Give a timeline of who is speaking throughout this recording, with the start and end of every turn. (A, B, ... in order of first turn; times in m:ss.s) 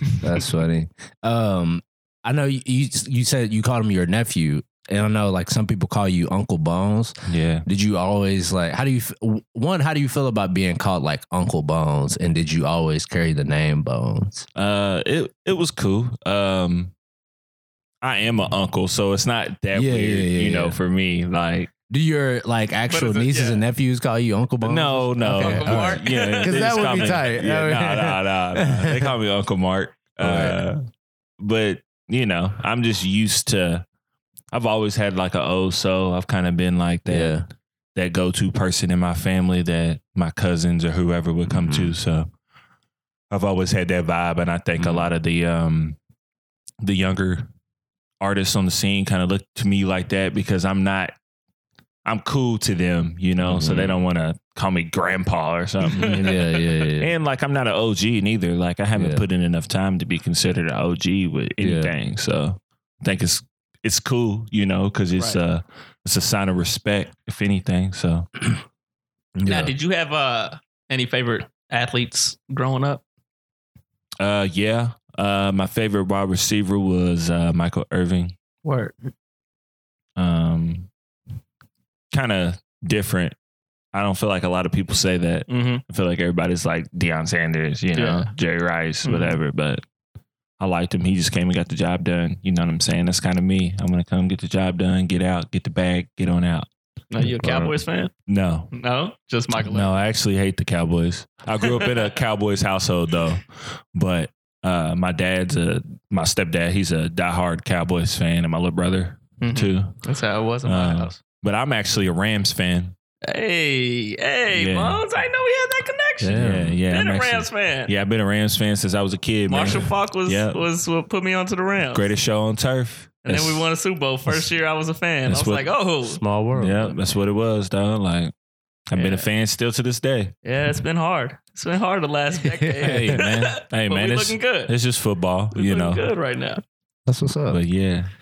0:00.2-0:07.1 A
0:07.2-0:07.6 B
0:07.6-0:14.5 A
0:14.5-0:16.9 B
0:18.0-0:21.7 B
0:19.7-0:20.8 A
0:21.9-0:29.1 A
0:22.9-0:23.6 C
0:24.6-0:30.8 B
0:25.2-0:27.2 C
0:30.2-0:30.6 A
0:31.4-0:33.8 B
0:34.5-0:37.4 B
0:37.1-0:37.4 A
0:37.9-0:42.3 B
0:41.5-0:41.9 A
0:43.3-0:46.0 B
0:44.8-0:45.1 A
0:46.8-0:47.5 B
0:48.2-0:51.1 B
0:52.0-0:56.4 B
0:53.4-0:54.0 A
0:55.8-0:56.3 C
0:55.9-0:57.1 A
0:57.0-1:08.3 B
0:58.9-0:59.2 A
1:01.6-1:01.9 A
1:09.4-1:09.7 A
1:09.4-1:13.0 C
1:14.2-1:18.4 B
1:18.6-1:18.9 C
1:20.2-1:20.9 B
1:22.1-1:23.3 B
1:23.9-1:29.8 B
1:25.5-1:25.8 C
1:27.9-1:28.3 C
1:29.0-1:29.4 C
1:30.6-1:36.7 B
1:37.1-1:38.1 C
1:37.2-1:37.7 B
1:38.3-1:38.7 B
1:38.7-1:39.9 C
1:39.6-1:50.0 B
1:41.7-1:42.1 C
1:49.4-1:51.2 C
1:50.6-1:52.9 B
1:53.3-1:57.9 C
1:54.5-1:55.0 B
1:56.2-1:56.8 A
1:56.3-2:00.6 B
1:59.5-2:02.1 C
2:01.9-2:03.6 B
2:03.2-2:06.2 C
2:05.3-2:05.7 B
2:06.0-2:07.0 A
2:06.5-2:08.3 B
2:08.9-2:10.3 B
2:08.9-2:09.3 C
2:10.4-2:14.7 C
2:12.6-2:13.2 A
2:12.8-2:16.1 B
2:15.5-2:16.6 C
2:17.0-2:17.6 A
2:17.5-2:18.1 B